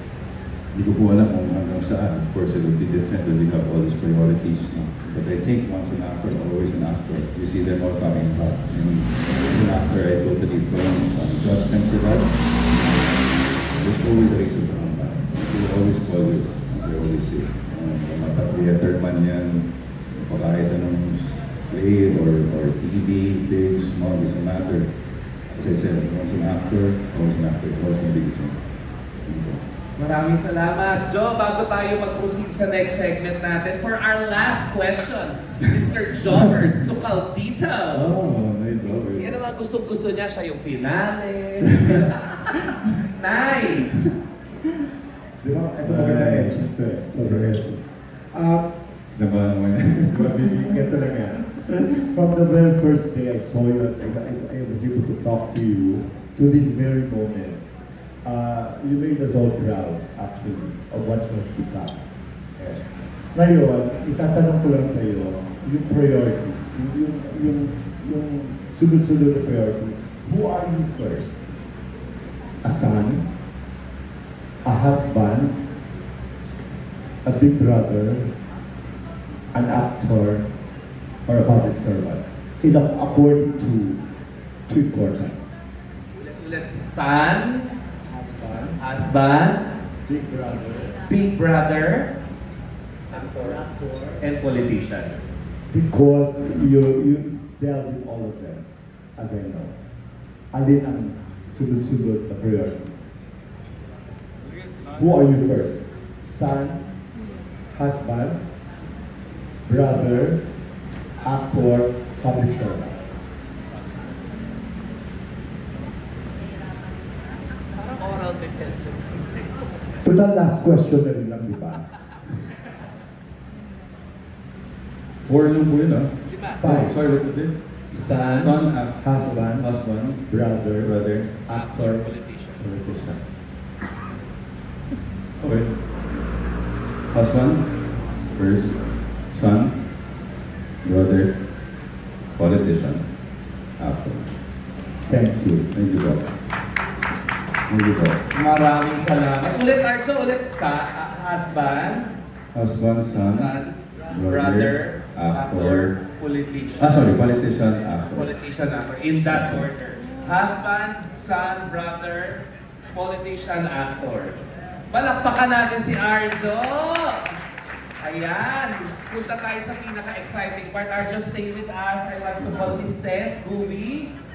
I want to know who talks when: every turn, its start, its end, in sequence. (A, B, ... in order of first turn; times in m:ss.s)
0:00.7-0:29.6 A
0:30.0-0:38.1 B
0:37.9-0:39.4 A
0:39.2-0:42.5 B
0:43.0-0:43.9 B
0:45.4-0:48.8 C
0:45.8-0:47.9 A
0:49.1-0:50.4 A
0:50.1-0:57.6 C
0:58.2-1:02.0 C
1:02.6-1:11.5 C
1:12.6-1:13.3 C
1:14.6-1:15.6 C
1:17.2-1:18.3 C
1:19.5-1:20.5 C
1:21.2-1:24.0 C
1:24.7-1:25.5 C
1:26.1-1:27.7 B
1:28.0-1:28.8 C
1:28.8-1:29.6 B
1:30.0-1:31.0 C
1:31.1-1:32.1 B
1:33.1-1:33.6 B
1:33.1-1:34.2 C
1:34.2-1:35.2 B
1:35.7-1:39.8 C
1:40.5-1:42.9 C
1:45.0-1:46.9 C
1:47.7-1:48.4 C
1:49.6-1:50.4 C
1:51.2-1:53.0 C
1:57.7-1:59.5 B
2:00.0-2:01.9 C
2:05.2-2:11.5 A
2:06.3-2:06.6 B
2:06.5-2:07.0 C
2:07.9-2:13.2 C
2:11.5-2:12.6 B
2:15.4-2:15.7 A
2:17.1-2:19.9 A
2:20.8-2:21.7 A
2:22.3-2:24.4 A
2:25.0-2:25.7 C
2:25.7-2:26.3 A
2:27.7-2:28.2 A
2:28.3-2:32.1 B
2:32.5-2:33.6 A
2:33.2-2:37.2 B
2:34.1-2:36.0 A
2:36.8-2:38.3 A
2:38.0-2:44.4 B
2:39.3-2:39.7 A
2:44.9-2:47.3 B
2:48.0-2:54.1 B
2:52.4-2:52.8 A